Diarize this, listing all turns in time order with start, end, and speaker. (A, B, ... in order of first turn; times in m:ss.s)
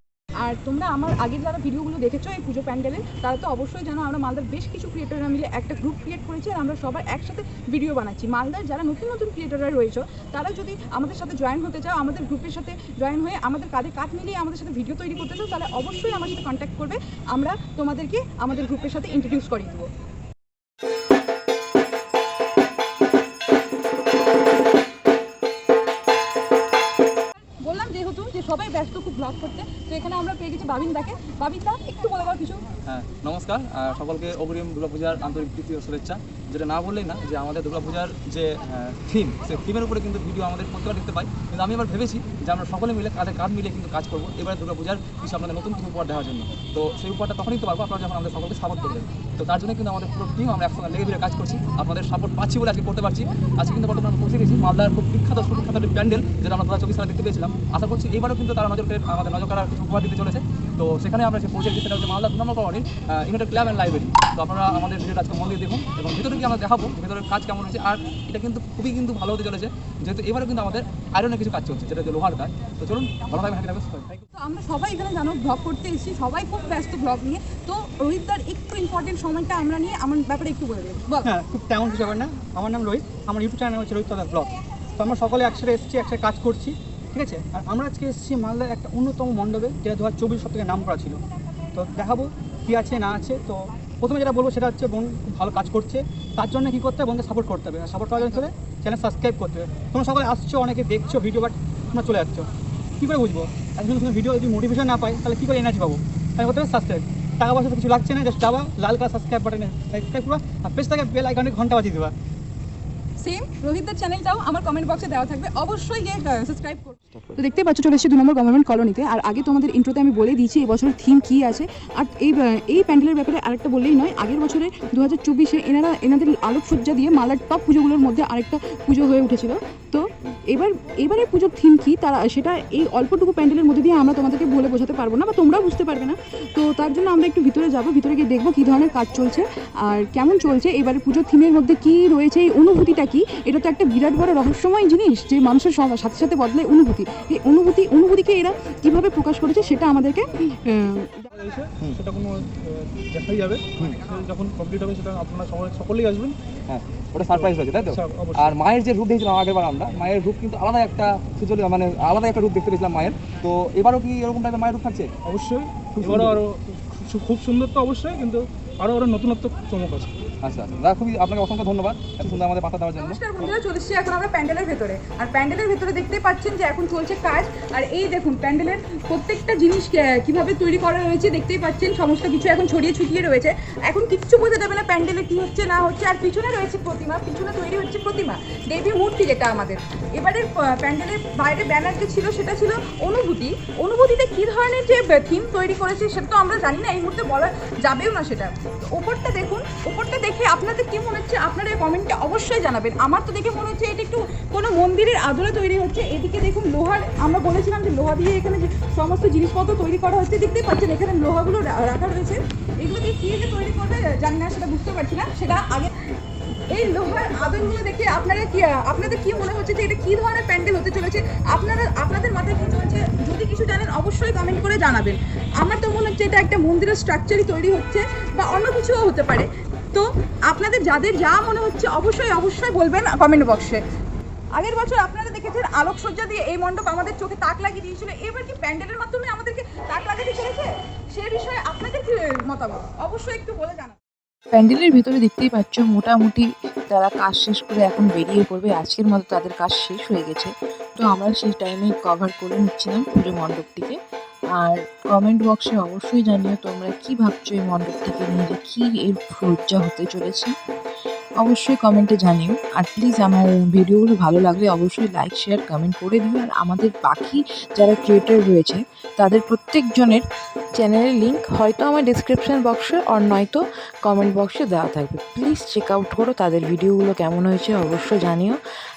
0:00.4-0:19.9 A
0:27.6-0:32.7 A
0:32.9-1:14.2 B
1:14.4-1:21.3 A
1:21.3-1:31.2 C
1:31.7-1:52.1 C
1:53.2-2:31.3 A
2:31.3-2:36.4 D
2:36.7-2:45.1 B
2:37.3-2:38.5 D
2:45.2-2:50.1 D
2:46.0-2:46.4 B
2:50.4-2:53.2 B
2:53.0-3:35.9 A
3:36.7-3:53.8 A
3:54.5-4:04.0 A
4:04.5-4:14.0 E
4:14.6-4:20.5 E
4:21.4-4:30.2 E
4:30.8-4:38.6 E